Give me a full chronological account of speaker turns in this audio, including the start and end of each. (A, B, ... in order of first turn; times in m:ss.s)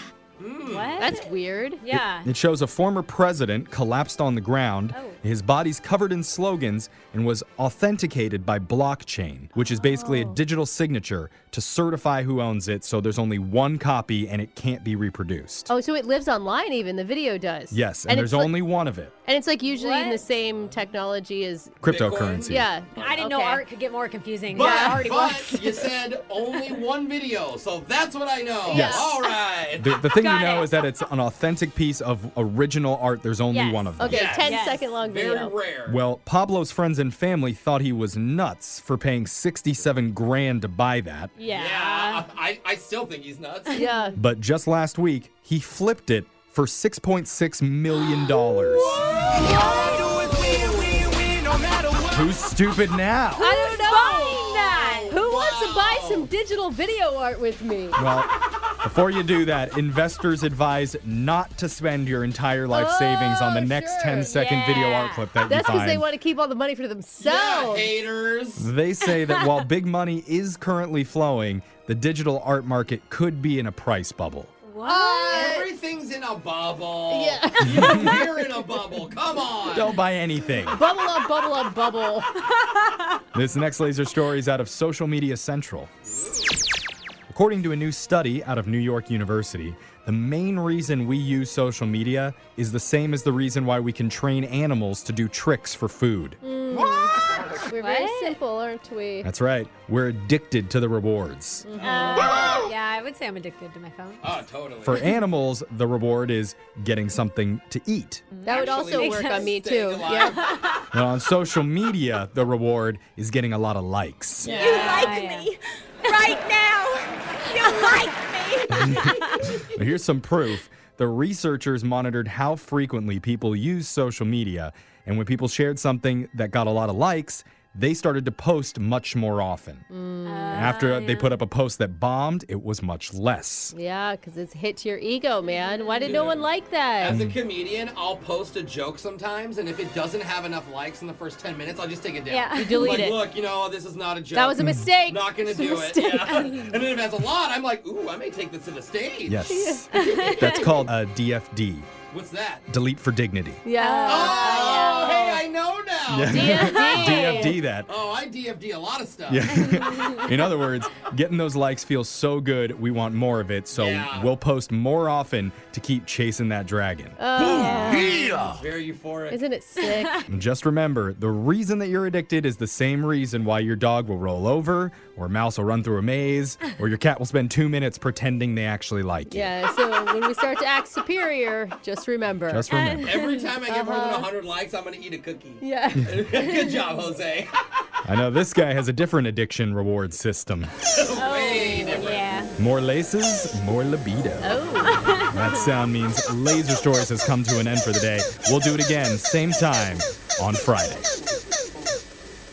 0:00.4-0:01.2 A
0:00.6-0:01.2 B
0:01.0-0:01.8 C
0:01.8-0:02.3 B
0:01.9-0:15.7 D
0:04.9-0:05.2 B
0:09.8-0:10.4 C
0:15.7-0:18.6 C
0:17.7-0:19.1 D
0:19.2-0:21.8 C
0:19.7-0:20.2 B
0:21.8-0:22.7 D
0:21.8-0:23.1 A
0:22.4-0:23.6 C
0:23.0-0:25.8 B
0:24.5-0:29.9 A
0:24.6-0:25.0 C
0:28.7-0:29.2 C
0:28.7-0:29.0 D
0:29.7-0:34.3 D
0:30.1-0:30.8 B
0:33.5-0:34.9 B
0:34.0-0:35.5 C
0:34.0-0:36.0 A
0:35.9-0:41.3 D
0:41.4-0:42.2 B
0:41.5-0:43.8 A
0:43.7-0:44.1 B
0:43.7-0:44.2 C
0:44.2-0:49.0 D
0:48.5-0:52.2 A
0:49.4-0:50.2 C
0:49.4-0:50.2 B
0:52.1-0:53.5 D
0:53.4-0:55.2 B
0:53.4-0:58.0 C
0:53.9-0:56.3 A
0:57.9-0:58.3 D
0:58.8-1:06.1 D
1:02.7-1:04.4 C
1:04.2-1:05.3 B
1:05.4-1:08.0 C
1:07.2-1:08.7 A
1:08.6-1:14.5 D
1:14.6-1:15.5 B
1:14.8-1:15.7 C
1:15.3-1:20.0 A
1:17.1-1:18.6 C
1:17.6-1:18.2 D
1:19.7-1:20.8 D
1:20.7-1:22.3 C
1:23.3-1:25.9 D
1:26.0-1:26.7 A
1:27.3-1:36.4 D
1:36.4-1:39.3 C
1:37.8-1:38.4 B
1:39.2-1:41.7 D
1:41.6-1:42.6 C
1:41.7-1:42.7 A
1:41.8-1:44.4 B
1:44.2-1:45.0 A
1:44.8-1:48.2 D
1:48.3-1:49.5 B
1:48.4-1:50.4 C
1:48.5-1:50.5 A
1:50.3-1:50.8 B
1:50.9-1:54.5 D
1:54.4-1:55.2 A
1:54.4-1:55.5 B
1:54.5-1:58.8 E
1:56.0-1:56.4 B
1:57.4-1:58.1 B
1:58.7-1:59.6 B
1:58.8-2:09.8 D
2:09.9-2:10.8 C
2:10.2-2:11.4 B
2:10.5-2:13.7 D
2:13.7-2:17.2 C
2:15.5-2:16.3 B
2:16.0-2:29.4 A
2:17.0-2:17.4 D
2:22.3-2:22.9 B
2:22.5-2:23.2 C
2:24.3-2:26.5 C
2:24.6-2:24.9 D
2:26.3-2:26.6 B
2:29.3-2:31.9 D
2:29.4-2:30.7 C
2:29.9-2:30.8 B
2:32.1-2:32.6 A
2:32.7-2:33.6 D
2:33.6-2:35.4 C
2:33.8-2:35.2 B
2:34.0-2:36.4 A
2:36.1-2:37.9 D
2:36.3-2:37.6 C
2:36.4-2:37.5 B
2:37.4-2:39.5 A
2:39.3-2:47.2 D
2:39.5-2:40.5 B
2:43.7-2:44.3 A
2:47.2-2:48.4 C
2:47.5-2:48.2 B
2:48.4-2:49.4 A
2:49.3-2:50.2 C
2:50.3-2:59.5 D
2:59.3-3:02.7 C
3:02.5-3:03.2 D
3:02.7-3:03.5 B
3:03.0-3:07.5 A
3:03.6-3:04.3 C
3:05.6-3:06.6 C
3:06.0-3:06.2 D
3:08.0-3:10.7 D
3:11.0-3:12.3 A
3:11.1-3:12.5 B
3:12.6-3:14.5 D
3:14.4-3:15.0 C
3:14.8-3:15.7 B
3:15.3-3:21.1 D